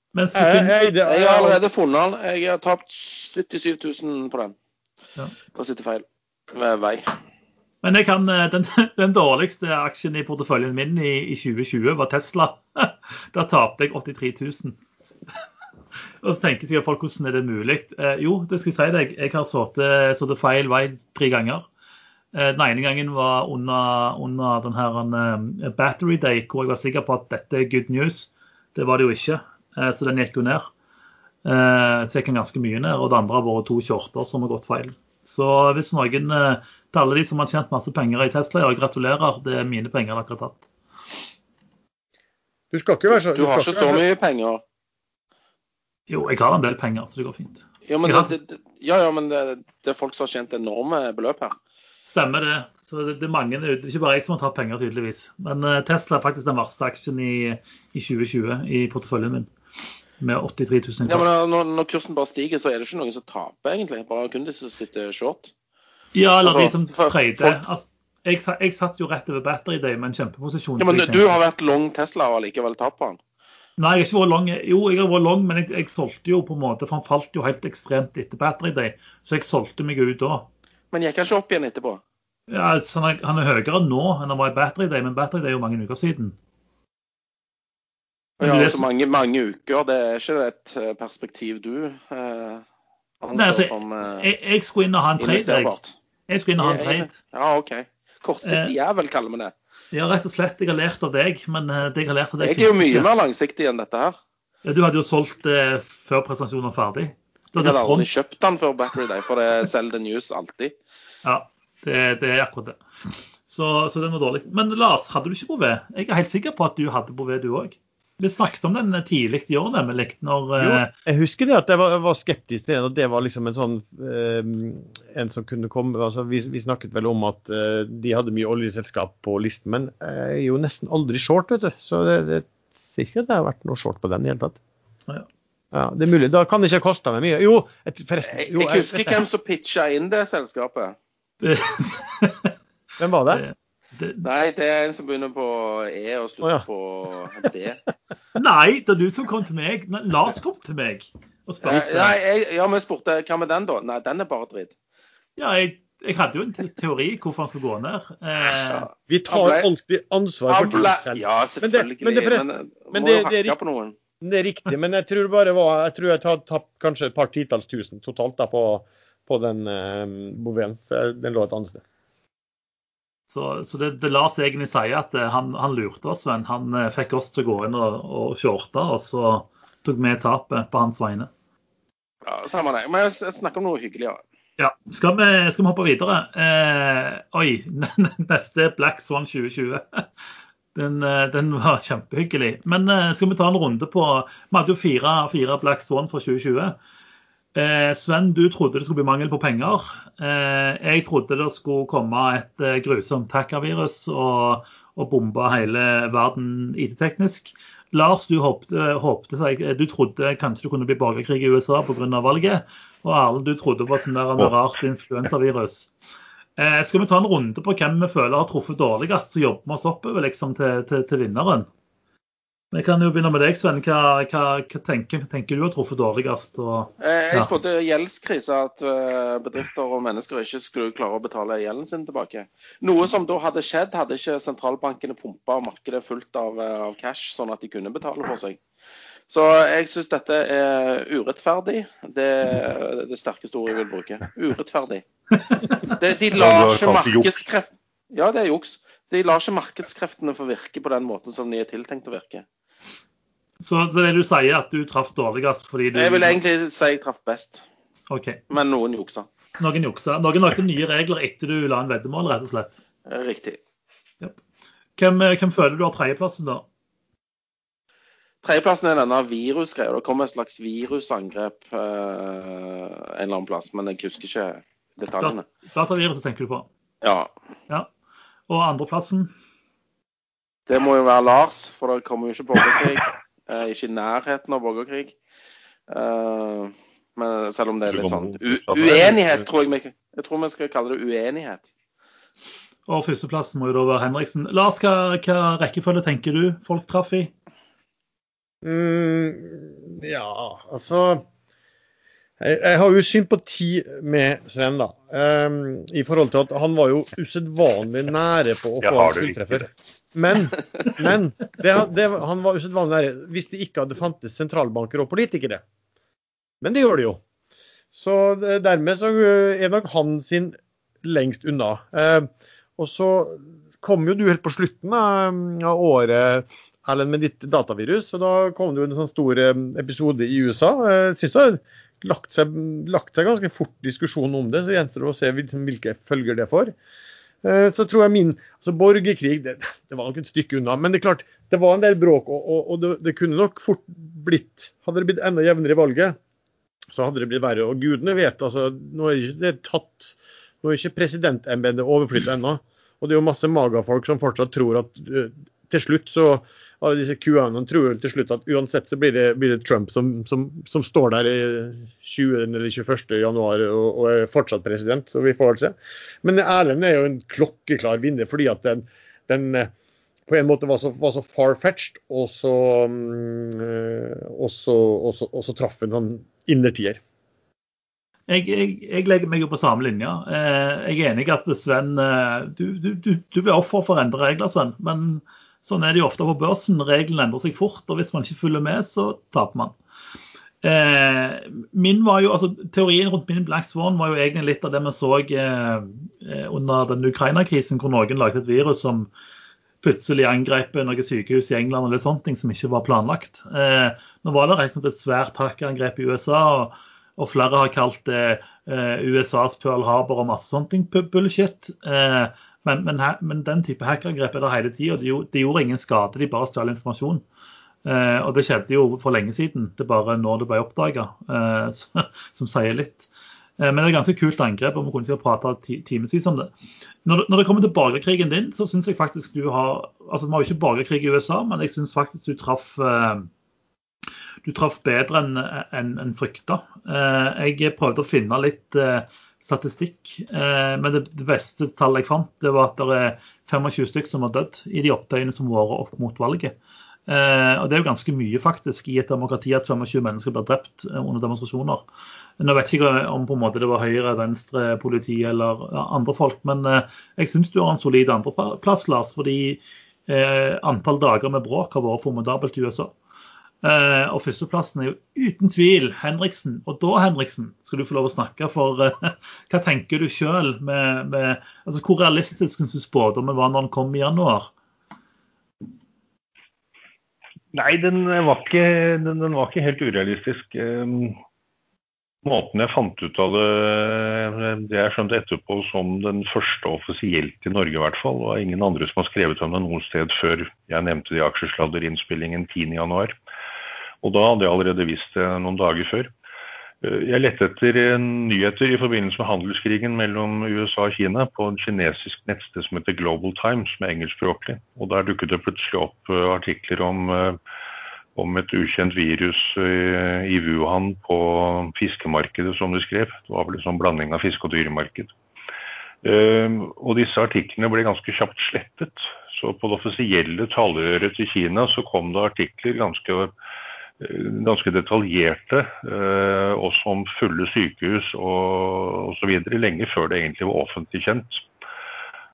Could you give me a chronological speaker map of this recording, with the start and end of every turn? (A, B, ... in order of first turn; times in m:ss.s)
0:00.2-0:00.8 A
0:00.4-0:01.6 B
0:01.0-0:04.6 C
0:05.5-0:07.1 C
0:07.8-0:14.8 A
0:16.2-0:21.6 A
0:22.3-0:30.7 A
0:31.4-0:40.6 A
0:42.7-0:44.0 B
0:43.2-0:44.6 C
0:46.1-0:48.3 A
0:47.9-0:51.6 C
0:52.1-0:59.5 A
1:00.2-1:01.3 A
1:01.1-1:05.5 C
1:06.1-1:11.4 A
1:06.4-1:07.6 C
1:10.8-1:13.2 C
1:13.8-1:20.5 A
1:20.9-1:22.0 C
1:22.5-1:26.4 A
1:28.4-1:28.8 A
1:28.4-1:32.6 C
1:33.2-1:34.3 C
1:33.3-1:35.7 A
1:35.2-1:36.0 C
1:36.3-1:37.2 A
1:36.6-1:39.5 C
1:38.4-1:38.7 A
1:39.9-1:43.1 A
1:42.4-1:44.2 C
1:44.6-1:48.1 A
1:47.6-1:50.8 C
1:51.2-1:52.8 A
1:53.5-2:00.9 A
2:00.6-2:14.6 B
2:15.7-2:19.2 B
2:18.3-2:21.0 C
2:21.4-2:22.5 A
2:23.0-2:23.4 B
2:23.3-2:24.3 A
2:24.2-2:27.8 C
2:28.4-2:32.2 A
2:31.6-2:34.7 C
2:35.4-2:38.9 A
2:38.7-2:39.7 C
2:39.1-2:43.6 B
2:40.5-2:44.0 C
2:44.2-2:51.8 B
2:53.3-3:01.3 A
3:02.2-3:04.2 C
3:04.6-3:10.1 A
3:10.8-3:16.8 A
3:17.6-3:35.9 A
3:36.6-3:41.7 A
3:42.7-3:47.5 A
3:47.0-3:58.6 C
3:59.3-4:05.0 C
4:05.4-4:06.0 A
4:05.8-4:12.4 C
4:06.3-4:07.4 D
4:13.6-4:16.4 A
4:15.9-4:17.6 C
4:18.1-4:18.4 A
4:18.5-4:19.3 C
4:19.6-4:22.8 A
4:23.1-4:23.6 C
4:25.0-4:26.6 A
4:28.4-4:35.4 C
4:35.2-4:36.7 A
4:37.0-4:37.3 C
4:38.5-4:39.3 A
4:40.7-4:45.2 C
4:45.9-4:51.7 C
4:47.9-4:49.5 D
4:52.9-4:57.3 A
4:58.6-5:01.2 B
5:02.4-5:15.6 B
5:08.8-5:09.7 D
5:16.6-5:17.2 B
5:17.9-5:36.7 B
5:37.4-5:46.2 B
5:46.9-6:09.7 B
6:10.3-6:17.0 B
6:18.3-6:29.8 A
6:30.6-6:39.1 A
6:39.8-6:57.2 A
6:57.8-7:03.1 A
7:03.6-7:06.5 A
7:07.0-7:13.3 A
7:14.4-7:26.6 A
7:27.1-7:31.8 A
7:32.4-7:42.9 A
7:43.6-7:54.5 A
7:57.5-8:01.2 D
8:02.2-8:13.1 D
8:14.0-8:16.1 D
8:16.8-8:27.4 D
8:28.2-8:35.1 D
8:36.0-8:43.3 D
8:44.0-8:51.4 D